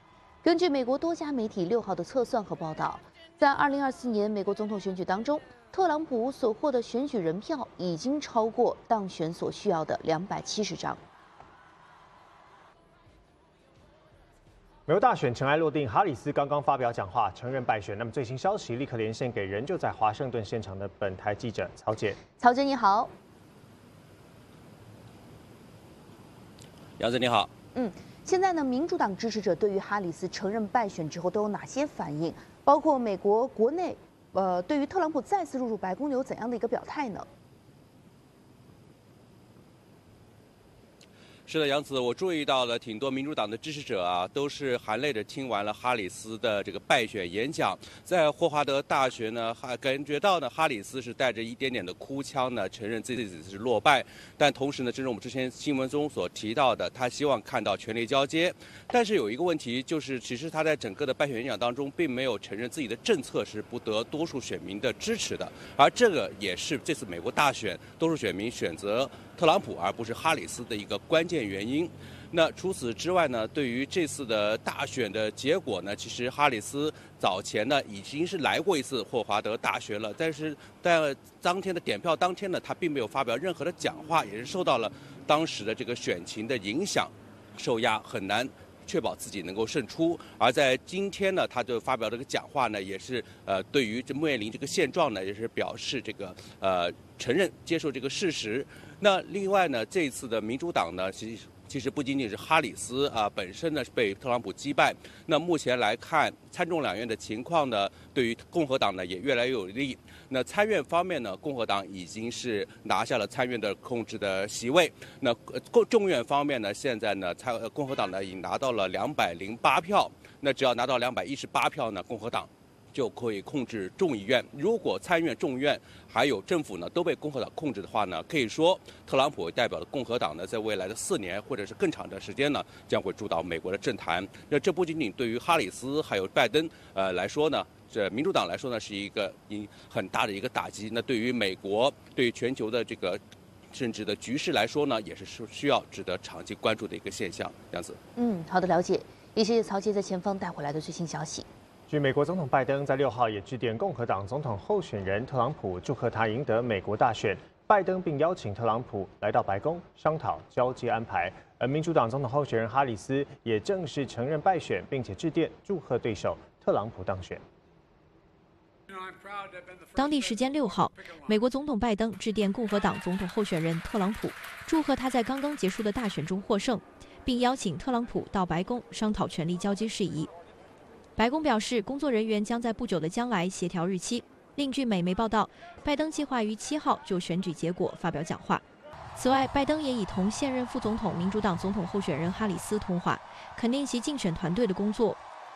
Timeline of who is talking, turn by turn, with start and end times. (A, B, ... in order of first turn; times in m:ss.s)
0:00.4-0:11.0 A
0:14.9-0:22.2 B
0:22.4-0:23.1 A
0:27.0-0:27.5 C
0:27.7-0:37.3 A
0:41.5-2:28.0 C
2:28.2-2:31.5 A
2:31.9-2:47.4 B
2:49.9-3:00.3 D
3:01.2-3:08.6 D
3:09.2-3:15.2 D